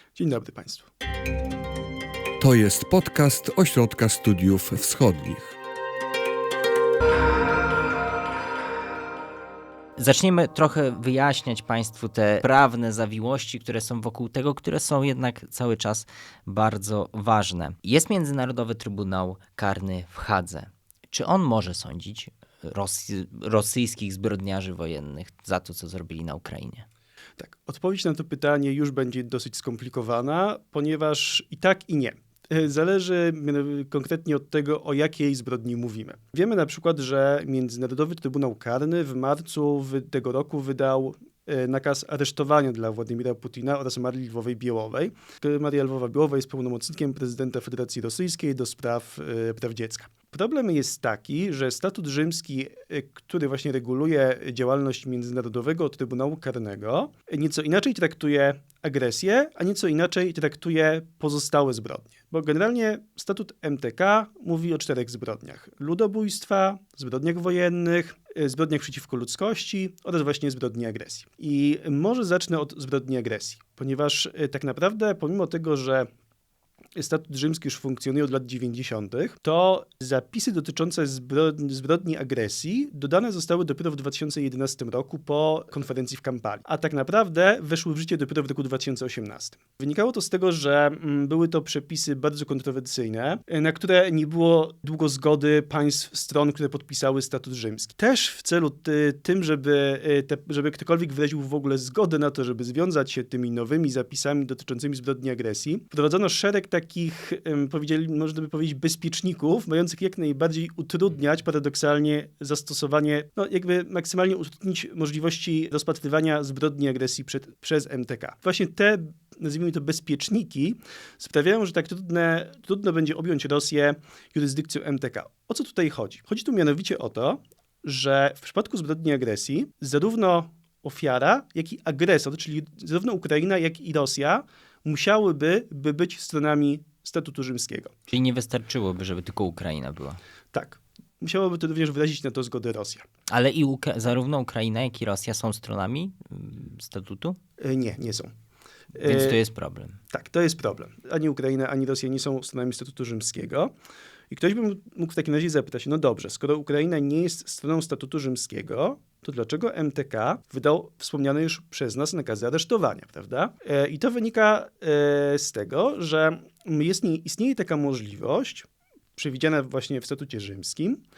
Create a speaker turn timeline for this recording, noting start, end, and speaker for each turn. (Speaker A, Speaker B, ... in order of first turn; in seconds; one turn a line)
Speaker A: 0.1-0.9
Speaker B: 2.4-5.5
Speaker C: 10.0-26.9
Speaker A: 27.4-76.1
Speaker A: 76.9-137.9
Speaker C: 138.1-140.2
Speaker A: 140.5-143.0
Speaker C: 143.3-147.4
Speaker A: 147.6-148.3
Speaker A: 148.9-149.4
Speaker C: 149.0-150.0
Speaker A: 150.1-153.7
Speaker A: 154.3-171.0